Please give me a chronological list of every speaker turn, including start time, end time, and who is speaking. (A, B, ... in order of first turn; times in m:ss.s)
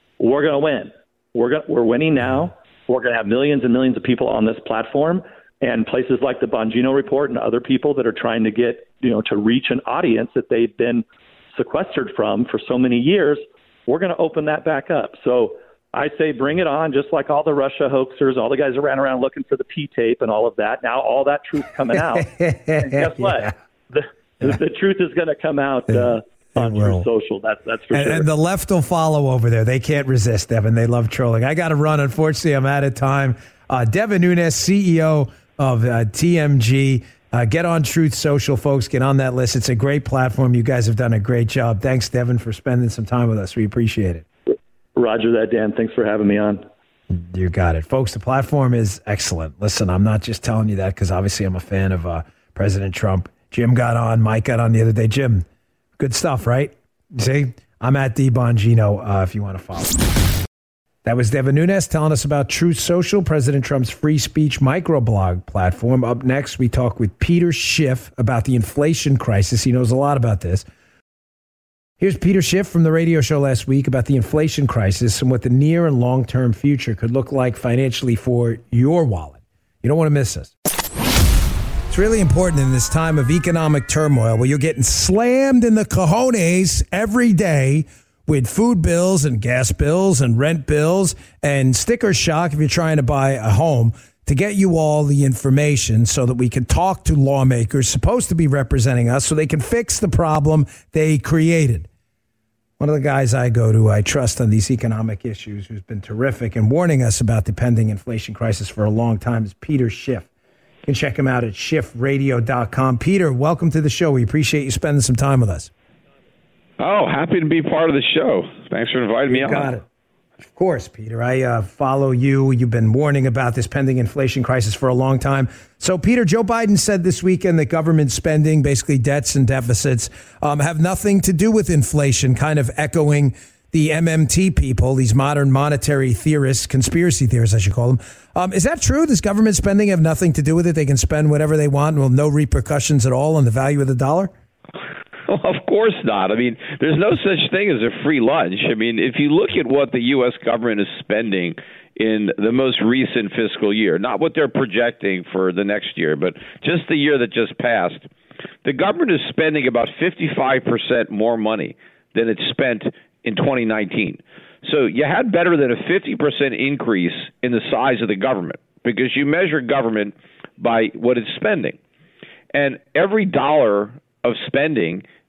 0:00.2-0:28.3 A
0:22.0-0:23.5 B
0:26.6-0:27.1 B
0:27.9-0:44.2 B
0:45.0-0:46.6 A
0:47.1-0:55.4 B
0:56.0-1:00.0 B
1:01.0-1:10.6 B
1:12.0-1:20.5 B
1:21.9-1:41.9 B
1:42.8-1:50.3 B
1:50.8-1:55.7 B
1:56.8-1:59.7 C
1:59.3-1:59.8 B
2:00.4-2:24.3 B
2:25.3-2:38.1 C
2:38.6-2:51.8 C
2:52.5-2:55.0 C